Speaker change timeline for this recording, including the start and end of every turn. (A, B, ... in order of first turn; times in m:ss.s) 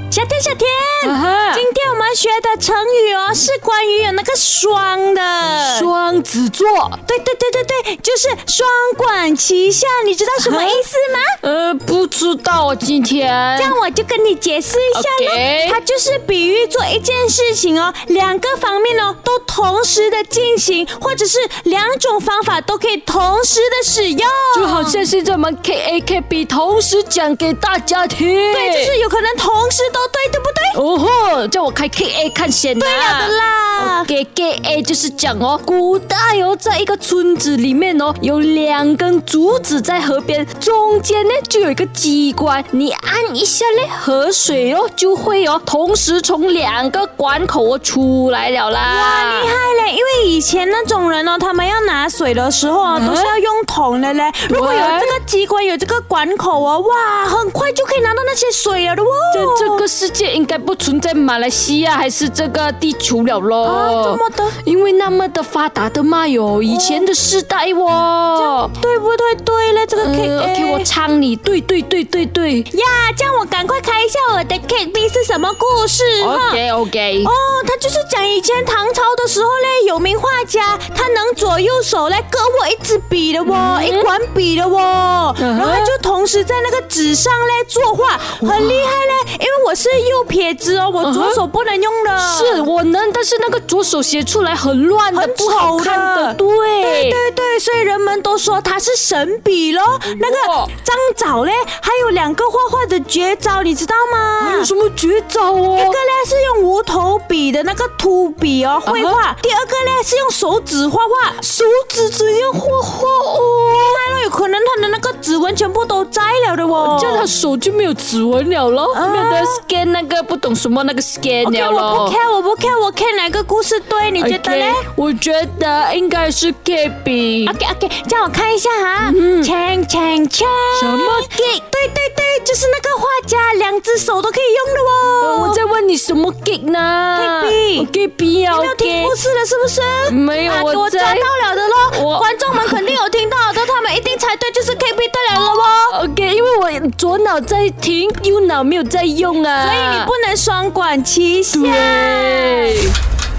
0:00.1-0:05.9 A
0:01.0-0:01.7 B
0:05.6-0:07.0 B
0:07.0-0:11.4 A
0:10.4-0:10.8 B
0:11.4-0:13.8 B
0:13.6-0:25.0 A
0:14.9-0:15.8 B
0:24.5-0:28.9 B
0:28.5-0:30.8 A
0:30.7-0:49.5 B
0:32.8-0:34.1 A
0:48.8-0:59.8 A
0:52.9-0:53.3 B
0:54.5-0:55.2 B
0:59.3-1:08.7 B
1:03.6-1:04.6 A
1:06.7-1:07.1 A
1:08.3-1:10.9 A
1:09.9-1:12.7 B
1:12.7-1:16.6 A
1:16.2-1:17.3 B
1:17.2-1:32.6 A
1:23.4-1:24.1 B
1:25.4-1:25.9 B
1:28.4-1:28.9 B
1:31.0-1:31.4 B
1:32.2-1:37.2 B
1:35.1-1:44.7 A
1:40.1-1:40.7 B
1:44.4-1:46.0 B
1:45.8-1:51.4 A
1:48.8-1:49.2 B
1:51.4-1:54.0 B
1:53.7-1:57.3 A
1:56.8-2:02.2 B
1:58.9-1:59.6 A
2:01.4-2:04.9 A
2:04.2-2:07.5 B
2:07.4-2:15.6 A
2:09.0-2:09.5 B
2:10.7-2:11.3 B
2:15.2-2:19.1 B
2:17.1-2:17.9 A
2:18.5-2:26.0 A
2:20.1-2:21.3 B
2:21.9-2:22.9 B
2:25.9-2:30.1 B
2:29.6-2:32.8 A
2:31.5-2:32.9 B